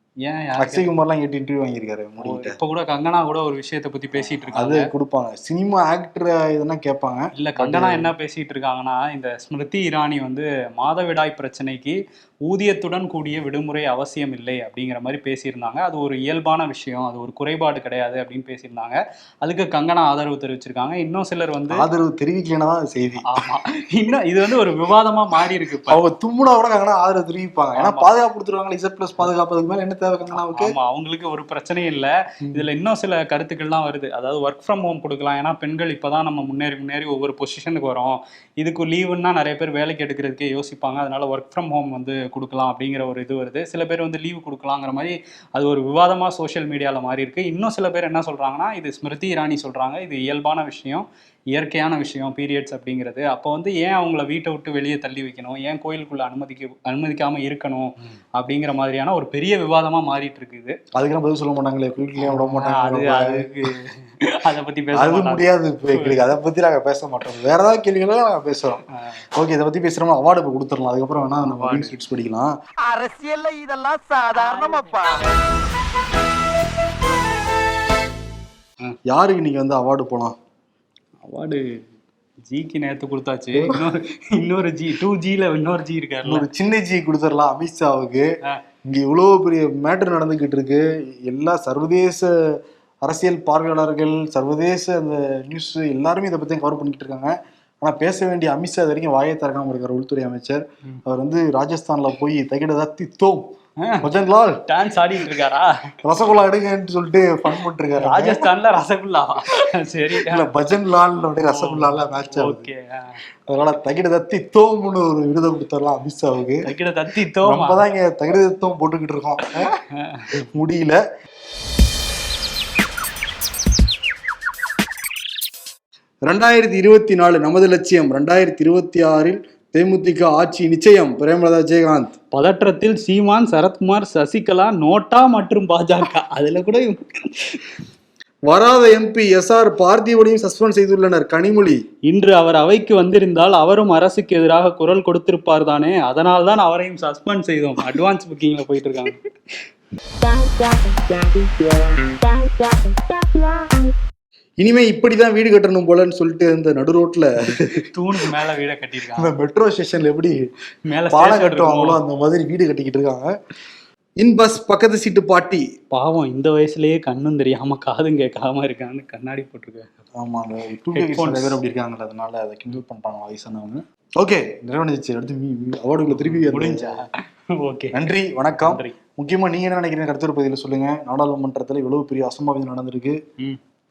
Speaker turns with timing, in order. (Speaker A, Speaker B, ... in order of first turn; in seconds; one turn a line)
Speaker A: 0.2-0.9
Speaker B: 0.6-2.6
Speaker A: 2.2-4.9
Speaker B: 4.5-8.1
Speaker A: 7.3-21.8
Speaker B: 21.7-23.2
Speaker A: 23.3-26.0
Speaker B: 25.9-30.7
Speaker A: 27.8-28.1
Speaker A: 30.4-60.8
Speaker B: 61.0-63.5
Speaker A: 62.2-66.3
Speaker B: 64.9-68.8
Speaker A: 69.0-69.2
Speaker B: 69.4-72.5
Speaker A: 71.4-72.0
Speaker C: 72.8-75.3
Speaker A: 74.3-74.9
Speaker B: 79.1-80.3
Speaker A: 81.2-81.8
Speaker A: 82.5-86.5
Speaker B: 83.5-83.8
Speaker B: 86.2-88.3
Speaker B: 88.9-103.5
Speaker A: 103.8-104.1
Speaker B: 104.0-104.6
Speaker A: 104.7-105.8
Speaker B: 106.0-108.5
Speaker A: 108.0-110.5
Speaker B: 110.2-112.6
Speaker A: 111.5-113.2
Speaker B: 113.5-116.7
Speaker A: 116.6-117.8
Speaker B: 117.5-119.8
Speaker A: 119.7-120.5
Speaker B: 120.5-121.0
Speaker B: 126.3-132.1
Speaker A: 132.3-137.8
Speaker B: 138.5-141.8
Speaker A: 142.1-149.3
Speaker C: 150.4-151.3
Speaker B: 154.6-157.9
Speaker A: 157.7-159.3
Speaker B: 159.2-160.5
Speaker A: 160.9-162.0
Speaker B: 161.1-163.3
Speaker B: 164.2-165.7
Speaker A: 165.9-169.9
Speaker B: 170.2-177.0
Speaker A: 170.9-171.6
Speaker A: 176.1-178.0
Speaker B: 177.9-183.2
Speaker A: 178.6-179.0